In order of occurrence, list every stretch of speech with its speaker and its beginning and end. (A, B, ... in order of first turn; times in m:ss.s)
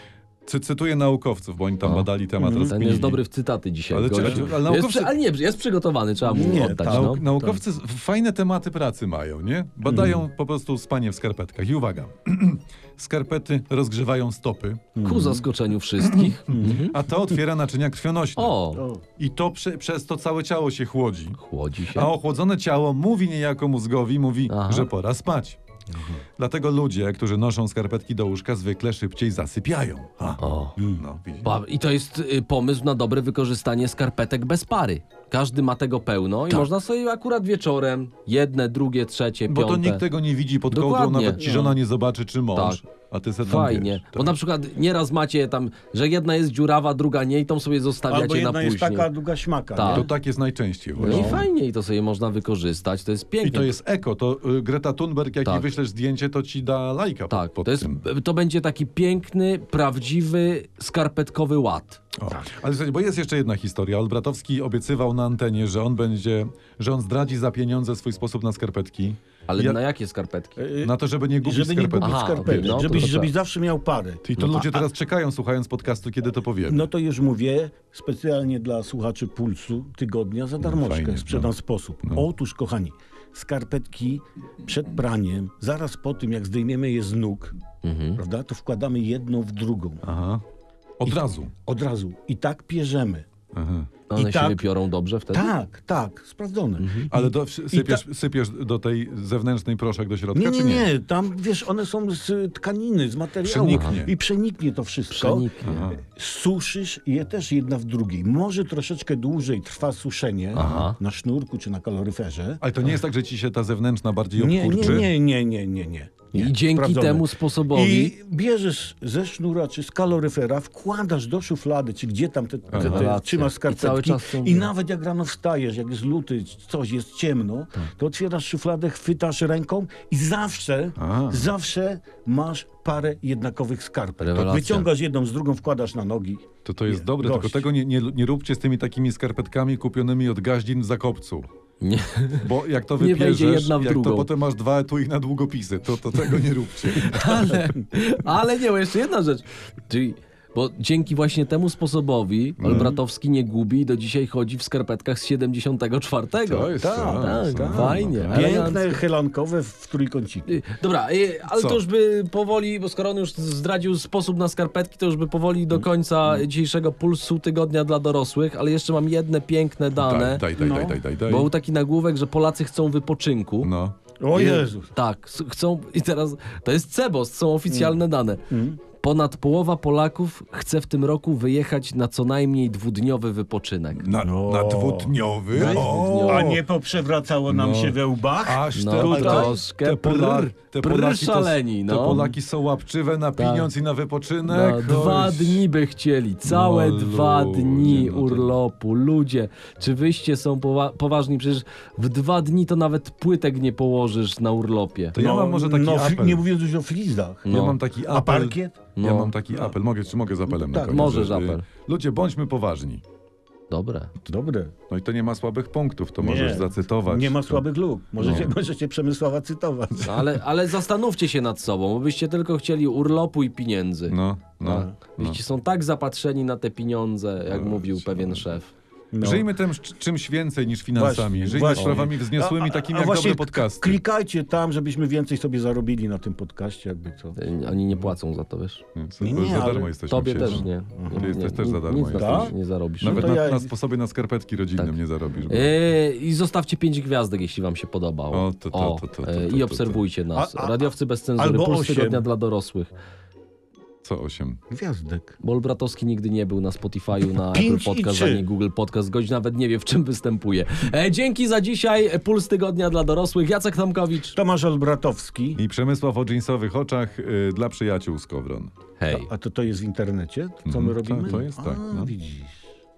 0:00.4-0:03.2 A
0:01.8-0:07.6 B
0:02.4-0:02.7 C
0:03.9-0:05.1 A
0:04.2-0:04.4 C
0:06.3-0:07.2 C
0:06.4-0:15.0 A
0:09.8-0:10.2 C
0:15.0-0:15.4 C
0:15.0-0:17.0 B
0:16.0-0:18.6 A
0:16.5-0:16.8 C
0:18.4-0:18.8 B
0:18.7-0:19.0 C
0:19.2-0:21.4 A
0:21.4-0:22.1 B
0:21.9-0:25.6 A
0:24.5-0:24.9 B
0:25.9-0:26.2 C
0:26.4-0:31.5 A
0:30.4-0:30.8 B
0:30.8-0:31.0 C
0:31.4-0:40.0 B
0:39.5-0:44.3 A
0:40.7-0:41.4 B
0:41.4-0:41.8 C
0:42.5-0:42.8 B
0:43.4-0:49.1 B
0:48.1-0:50.1 C
0:49.7-0:50.1 B
0:49.8-0:51.4 A
0:51.0-0:51.4 C
0:51.0-0:53.7 B
0:53.4-0:58.0 A
0:57.3-1:02.0 B
1:02.2-1:09.8 A
1:09.5-1:10.6 B
1:10.6-1:14.9 C
1:10.8-1:13.1 A
1:12.0-1:13.3 B
1:14.2-1:16.8 A
1:16.6-1:27.6 C
1:20.6-1:21.5 A
1:27.8-1:28.2 B
1:28.2-1:30.0 C
1:30.0-1:30.4 A
1:31.0-1:31.5 A
1:31.0-1:33.3 C
1:33.5-1:33.9 A
1:34.1-1:35.5 B
1:34.1-1:34.6 C
1:35.3-1:38.0 C
1:36.8-1:37.1 B
1:37.1-1:40.9 A
1:40.3-1:52.6 C
1:43.4-1:44.1 A
1:43.7-1:44.0 B
1:45.1-1:45.8 B
1:45.6-1:46.0 A
1:50.5-1:51.0 B
1:50.5-1:50.9 A
1:52.6-1:55.1 A
1:54.4-2:17.7 C
1:56.3-1:58.1 B
2:02.7-2:03.1 A
2:02.8-2:04.7 B
2:11.0-2:11.5 A
2:14.2-2:14.9 B
2:16.6-2:21.4 A
2:21.8-2:22.5 B
2:22.4-2:27.7 A
2:23.0-2:24.3 B
2:26.9-2:39.0 B
2:32.6-2:32.9 A
2:32.6-2:33.0 C
2:36.5-2:38.7 A
2:36.8-2:40.6 C
2:40.5-2:50.5 B
2:41.5-2:41.8 A
2:50.0-2:51.5 A
2:50.5-2:51.0 C
2:51.2-2:53.7 B
2:53.6-2:54.0 A
2:54.2-2:54.9 C
2:54.3-3:04.0 B
2:57.7-2:58.8 C
3:03.9-3:06.6 A
3:04.2-3:09.5 C
3:05.5-3:06.6 B
3:07.5-3:15.6 A
3:08.7-3:12.3 B
3:13.4-3:13.7 B
3:14.4-3:25.2 B
3:16.4-3:18.5 A
3:25.1-3:26.4 A
3:25.1-3:27.5 C
3:27.5-3:27.8 B
3:27.5-3:33.0 A
3:28.1-3:28.8 C
3:29.0-3:29.3 B
3:30.5-3:31.3 C
3:30.9-3:31.6 B
3:33.7-3:34.1 B
3:34.3-3:34.7 C
3:34.9-3:37.6 A
3:36.2-3:40.2 C
3:38.2-3:38.5 A
3:40.0-3:48.7 B
3:44.1-3:45.4 A
3:44.6-3:44.9 C
3:47.5-3:48.4 A
3:49.1-3:49.5 C
3:49.2-3:54.0 A
3:50.9-3:57.4 C
3:51.7-3:52.1 B
3:57.4-3:58.8 B
3:58.9-4:05.7 A
3:59.2-3:59.9 C
4:00.1-4:03.4 B
4:01.0-4:01.3 C
4:02.1-4:03.7 C
4:05.5-4:12.9 B
4:08.3-4:10.0 A
4:10.3-4:12.2 C
4:14.0-4:14.6 A
4:14.7-4:15.4 C
4:15.4-4:24.4 B
4:17.5-4:18.4 C
4:24.3-4:25.6 C
4:25.6-4:28.7 A
4:29.0-4:29.3 B
4:29.1-4:32.6 C
4:30.6-4:32.1 A